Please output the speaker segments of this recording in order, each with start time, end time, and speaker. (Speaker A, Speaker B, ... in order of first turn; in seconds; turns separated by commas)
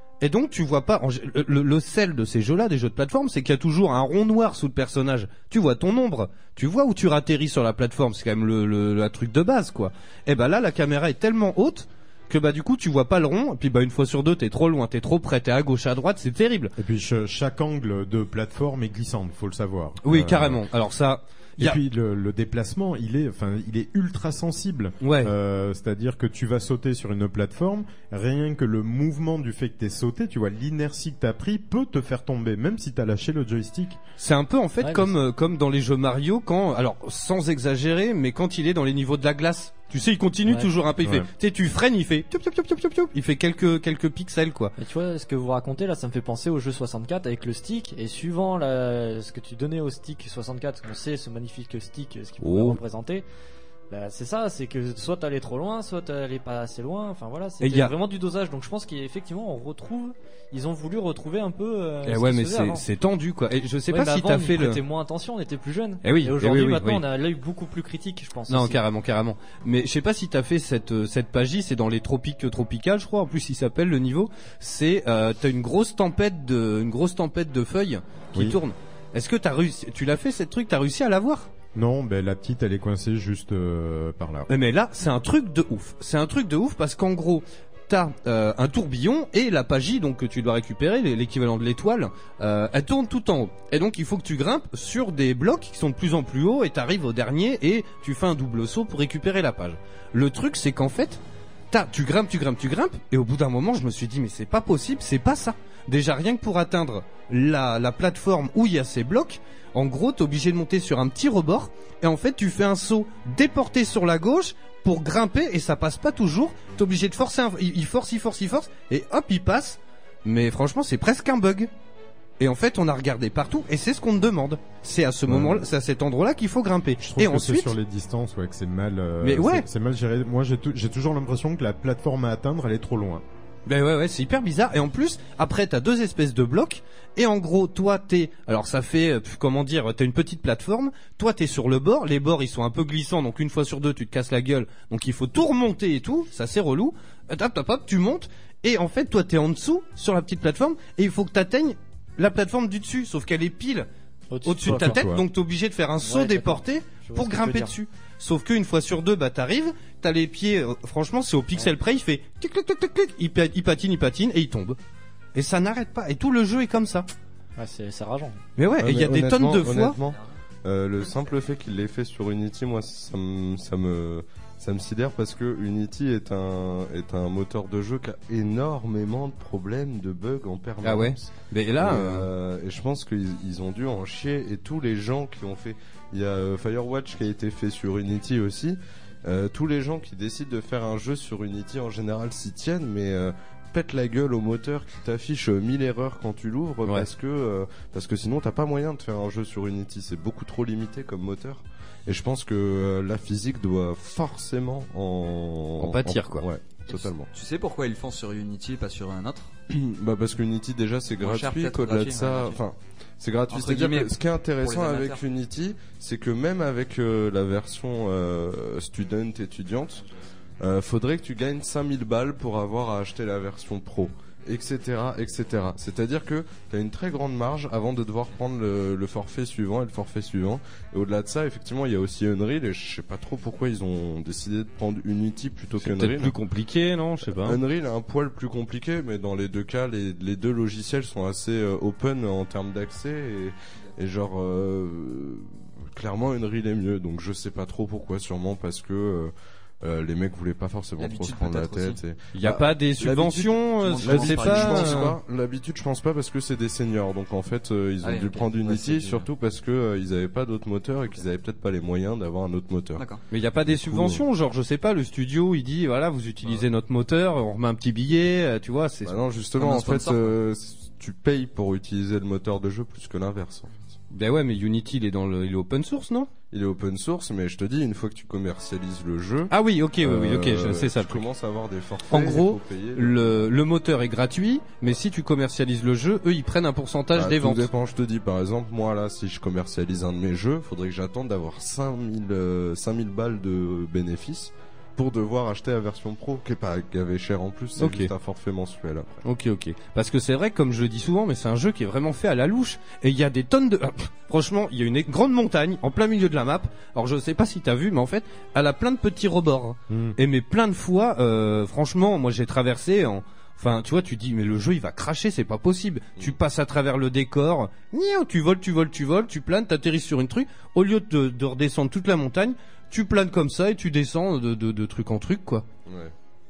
Speaker A: 0.2-16.7, Speaker B: 16.8-20.6, Speaker A: 20.0-21.8, Speaker B: 21.6-34.0, Speaker A: 25.0-25.3, Speaker A: 34.2-44.7, Speaker C: 34.8-35.1, Speaker B: 41.0-41.3, Speaker C: 44.8-53.2, Speaker A: 52.4-52.8, Speaker C: 53.9-62.8, Speaker A: 57.6-57.9, Speaker A: 62.0-64.8, Speaker C: 63.9-68.8, Speaker A: 66.0-67.0, Speaker A: 68.5-81.5, Speaker B: 81.8-84.5, Speaker A: 84.5-121.7, Speaker A: 122.4-127.8, Speaker B: 125.3-125.7, Speaker B: 127.0-133.2, Speaker A: 129.2-129.7, Speaker A: 133.7-153.9, Speaker C: 154.3-155.0, Speaker A: 154.4-164.8, Speaker B: 154.7-155.2, Speaker C: 156.0-157.7, Speaker A: 165.3-167.1, Speaker C: 167.6-168.4, Speaker A: 168.6-170.0, Speaker D: 168.8-207.3, Speaker A: 180.8-182.3, Speaker A: 205.8-206.4, Speaker E: 206.9-209.5, Speaker D: 209.7-220.0, Speaker E: 211.2-212.6, Speaker E: 213.5-215.2, Speaker D: 220.6-236.3, Speaker A: 235.8-237.6, Speaker D: 237.3-263.1, Speaker E: 251.0-252.0, Speaker A: 252.3-255.2, Speaker E: 253.8-255.1, Speaker E: 258.0-259.3, Speaker E: 263.0-263.2, Speaker A: 263.3-269.2, Speaker D: 263.7-264.2, Speaker D: 269.0-273.9, Speaker E: 269.6-270.3, Speaker A: 274.1-276.3, Speaker D: 276.5-283.4, Speaker A: 279.5-281.2, Speaker A: 282.1-287.7, Speaker D: 287.1-299.2, Speaker A: 297.8-298.1, Speaker A: 299.2-325.7, Speaker B: 309.9-310.2, Speaker D: 325.9-326.1